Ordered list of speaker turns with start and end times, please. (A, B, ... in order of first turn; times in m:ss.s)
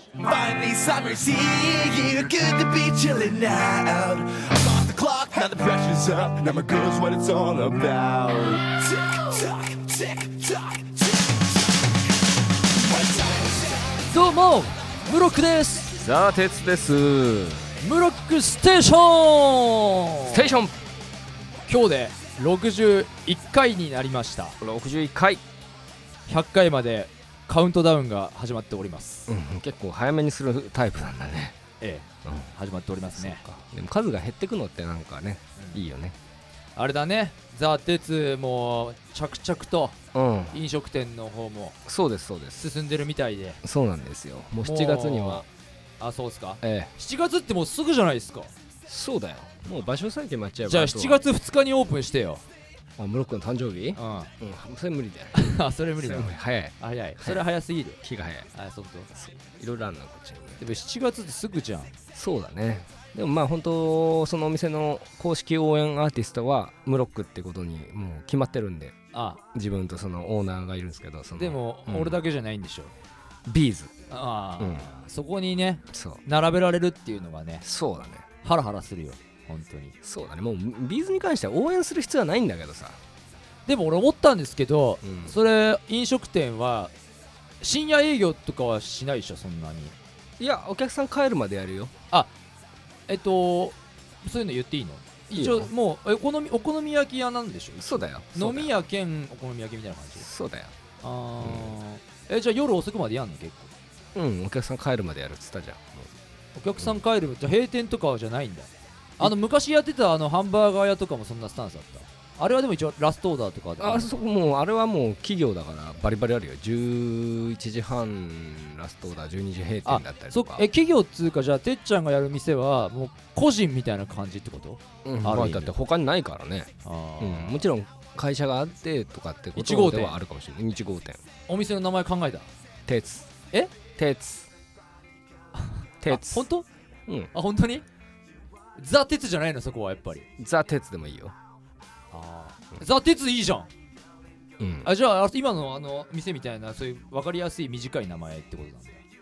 0:00.2-0:11.4 A
0:12.9-0:13.8 A
0:14.1-0:16.0 B
0:16.0-0:17.7 C
0:17.8-0:20.6 B
0:20.3-0:20.8 C
0:21.7-0:24.6 B
0:24.6-0:25.4 C
0:26.3-0:29.3 B
0:29.3-0:31.6 C
0:31.8-0:33.4 B
0:32.2-0:32.5 C
0:33.2-0:36.2 C
0:35.6-0:35.8 B
0:36.8-0:40.0 B
0:40.1-0:40.6 C
0:40.5-0:41.8 B
0:41.9-0:42.7 C
0:42.6-0:43.6 B
0:43.6-0:45.5 C
0:44.6-0:45.5 B
0:46.0-0:48.5 B
0:46.6-0:46.9 C
0:48.9-0:51.2 C
0:50.6-0:52.4 B
0:53.0-0:57.4 C
0:54.0-0:54.3 B
0:55.3-0:58.0 B
0:58.0-0:58.5 C
0:58.5-0:59.1 B
0:59.1-1:00.8 C
1:00.6-1:02.0 B
1:02.1-1:09.0 C
1:09.1-1:09.4 B
1:09.5-1:12.2 C
1:11.4-1:12.9 B
1:13.5-1:13.9 C
1:14.1-1:17.6 B
1:14.6-1:14.9 C
1:15.9-1:16.2 C
1:17.6-1:18.3 C
1:18.4-1:20.0 B
1:20.0-1:23.0 C
1:23.7-1:26.9 B
1:25.0-1:25.4 C
1:27.6-1:30.0 B
1:30.4-1:31.9 C
1:33.1-1:40.3 B
1:35.4-1:35.7 C
1:37.8-1:38.7 C
1:40.2-1:40.7 C
1:41.0-1:43.7 B
1:41.4-1:41.8 C
1:44.2-1:46.1 C
1:46.6-1:54.1 B
1:53.8-2:00.6 C
1:59.8-2:05.7 B
2:05.0-2:11.2 C
2:06.8-2:07.6 B
2:09.6-2:10.2 B
2:11.5-2:12.5 B
2:12.9-2:13.3 C
2:14.0-2:14.5 C
2:15.5-2:16.7 B
2:16.0-2:16.5 C
2:17.3-2:17.8 B
2:18.8-2:20.3 B
2:20.4-2:21.4 C
2:22.1-2:23.7 B
2:24.6-2:24.9 C
2:24.8-2:29.0 B